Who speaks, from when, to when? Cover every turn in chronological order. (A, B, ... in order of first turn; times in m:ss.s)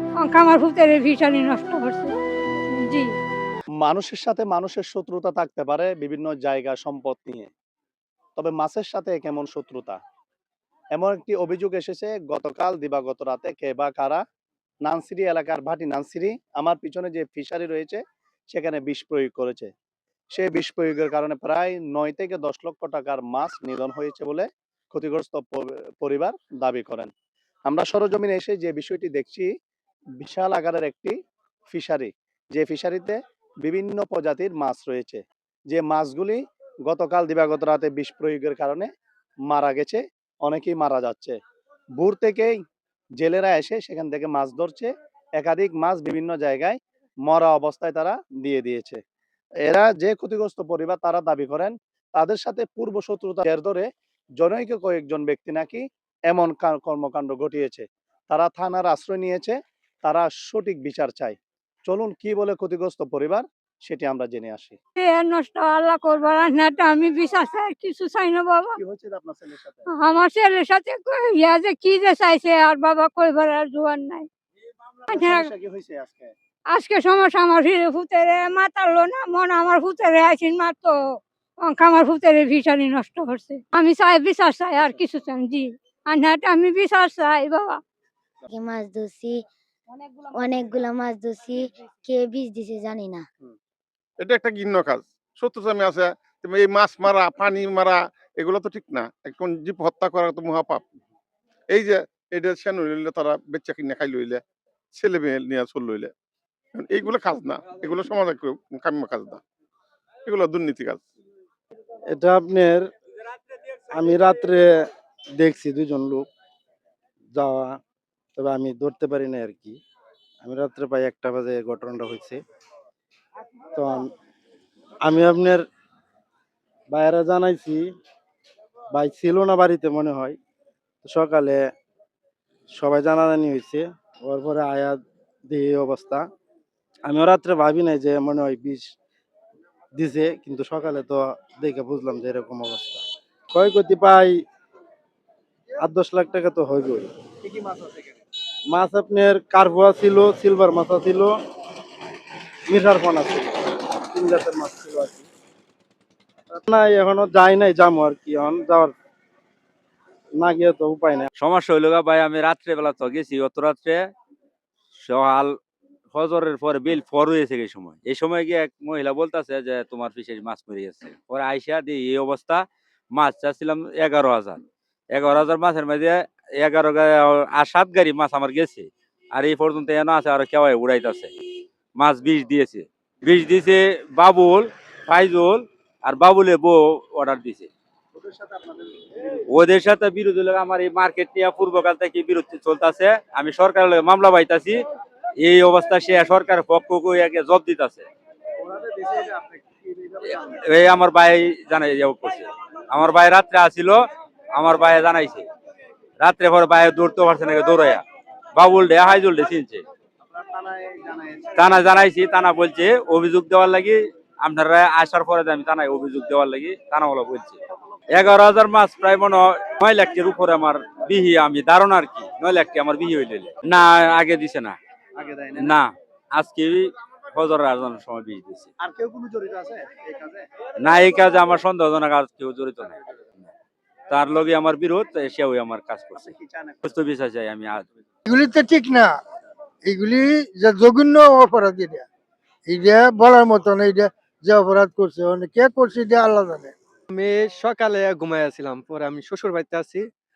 0:00.2-0:02.1 A
0:02.7-0:03.2 A
0:03.8-0:07.5 B
0:08.4-0:10.0 B
0:10.9-0:14.2 B
0:14.8-0:18.0 B
0:18.5-0:19.7 B
0:20.3-0:27.1 B
0:27.7-0:29.5 B
0:30.2-0:31.2 B
0:31.7-0:38.9 B
0:39.5-0:41.4 B
0:42.0-0:42.6 B
0:43.2-0:49.0 B
0:49.6-0:53.9 B
0:54.4-1:01.4 B
1:01.9-1:04.8 B
1:05.0-1:08.8 A
1:08.8-1:09.9 B
1:09.9-1:14.3 A
1:15.0-1:16.3 B
1:15.1-1:15.5 A
1:16.7-1:21.0 A
1:21.6-1:27.8 A
1:28.4-1:29.4 C
1:30.2-1:33.2 C
1:34.2-1:40.8 D
1:41.7-1:44.4 D
1:44.9-1:46.1 D
1:46.8-1:49.4 D
1:50.2-1:51.0 D
1:52.1-1:52.9 E
1:53.9-1:54.8 E
1:55.4-1:56.2 E
1:57.3-1:57.8 E
1:58.4-1:59.8 E
2:00.4-2:02.4 E
2:03.7-2:04.1 E
2:05.0-2:05.6 E
2:06.9-2:07.9 E
2:08.9-2:10.4 E
2:11.0-2:11.6 E
2:12.8-2:16.2 E
2:17.0-2:18.9 E
2:19.9-2:24.4 E
2:25.8-2:27.1 E
2:27.4-2:28.2 B
2:28.7-2:31.3 E
2:32.7-2:35.3 E
2:36.6-2:38.9 E
2:40.4-2:41.3 E
2:41.4-2:44.1 F
2:44.9-2:45.6 F
2:46.1-2:52.6 F
2:53.1-3:01.3 F
3:02.0-3:07.7 F
3:08.1-3:09.4 B
3:09.5-3:14.8 F
3:15.4-3:18.1 F
3:18.6-3:20.6 B
3:20.3-3:24.0 F
3:24.5-3:25.4 F
3:26.2-3:28.0 F
3:28.5-3:29.8 F
3:30.2-3:31.9 B
3:31.6-3:37.6 F
3:37.7-3:38.3 B
3:38.1-3:44.8 F
3:45.2-3:45.8 B
3:45.6-3:48.7 F
3:48.8-3:50.4 B
3:50.8-3:53.0 F
3:54.1-3:57.8 F
3:56.1-3:56.9 B
3:58.3-3:59.2 G
3:59.8-4:02.1 G
4:02.6-4:06.7 G
4:07.1-4:10.0 H